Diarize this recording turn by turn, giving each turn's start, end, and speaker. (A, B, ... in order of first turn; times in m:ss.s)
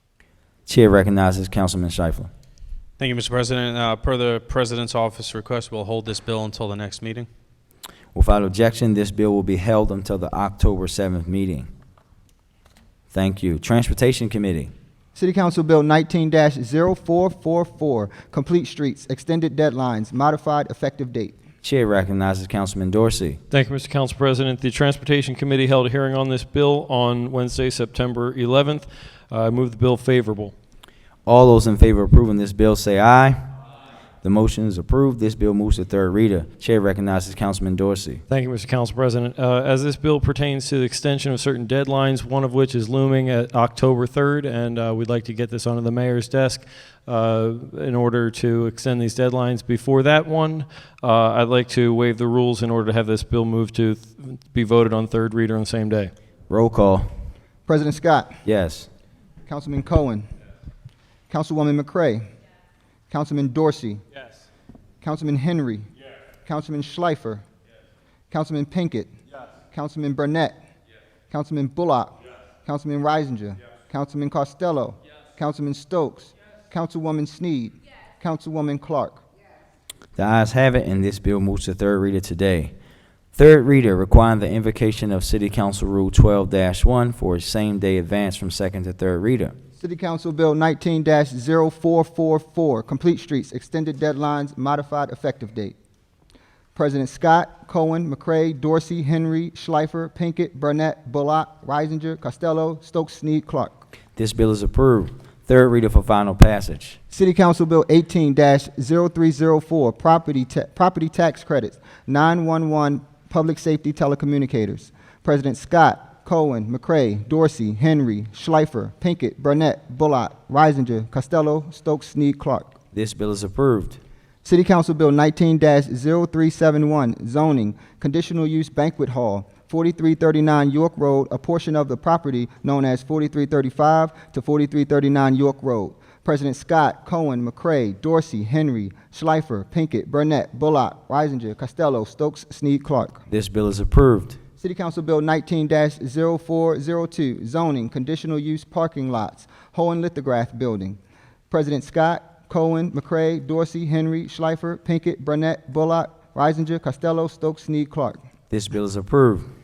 0:00.7-0:02.3 A
0:03.0-0:07.3 B
0:08.1-0:11.7 A
0:13.1-0:14.7 A
0:15.1-0:21.4 C
0:21.6-0:23.4 A
0:23.5-0:30.5 D
0:31.2-0:33.4 A
0:34.2-0:38.2 A
0:38.3-0:56.1 D
0:56.5-0:57.1 A
0:57.7-0:58.3 C
0:58.4-0:58.9 A
0:59.5-1:00.3 C
1:01.3-1:02.3 C
1:03.1-1:04.0 C
1:05.0-1:05.9 C
1:06.4-1:07.4 C
1:08.3-1:09.1 C
1:09.7-1:10.6 C
1:11.3-1:19.2 C
1:20.2-1:22.7 A
1:23.3-1:29.5 A
1:29.8-1:35.8 C
1:36.7-1:43.8 C
1:44.2-1:47.0 A
1:47.1-2:02.8 C
2:02.9-2:04.0 A
2:04.4-2:23.2 C
2:23.3-2:24.4 A
2:24.6-2:31.0 C
2:31.5-2:38.2 C
2:38.5-2:39.5 A